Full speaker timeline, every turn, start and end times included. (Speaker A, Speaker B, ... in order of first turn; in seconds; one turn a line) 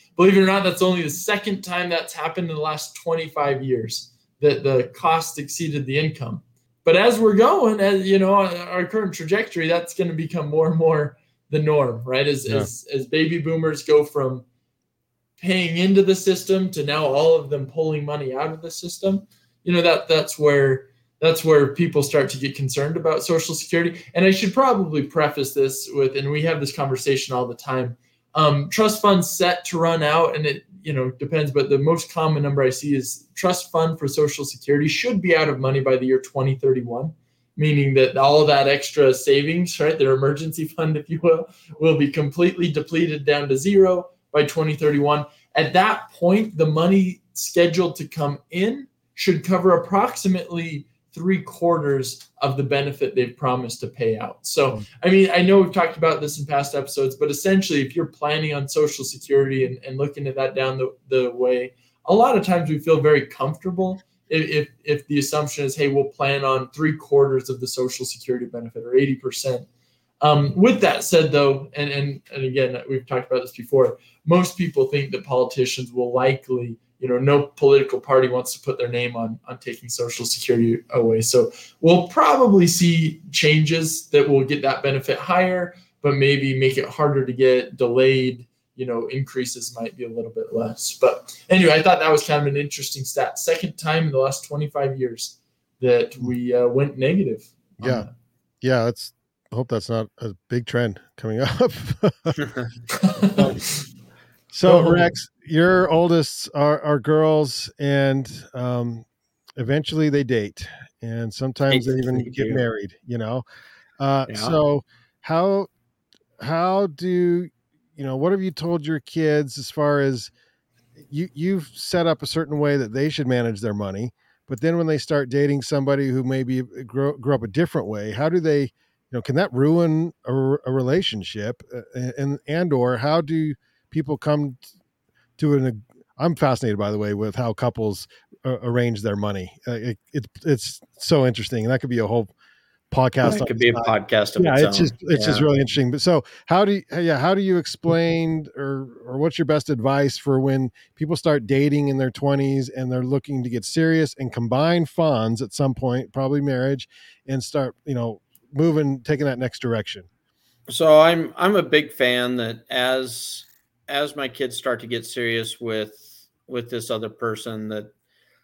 Speaker A: 0.1-14.4
Speaker A: 15.4-69.7
Speaker A: 70.2-98.1
Speaker B: 97.8-98.1
Speaker B: 98.6-102.4
Speaker C: 102.4-102.7
Speaker A: 103.0-103.5
Speaker B: 103.3-103.6
Speaker B: 104.5-109.0
Speaker A: 104.6-105.1
Speaker B: 109.6-113.4
Speaker C: 111.7-112.6
Speaker B: 114.0-115.7
Speaker C: 114.3-114.5
Speaker B: 116.4-120.3
Speaker B: 121.0-134.6
Speaker B: 135.4-142.3
Speaker B: 142.9-160.1
Speaker C: 143.2-145.4
Speaker C: 160.7-167.9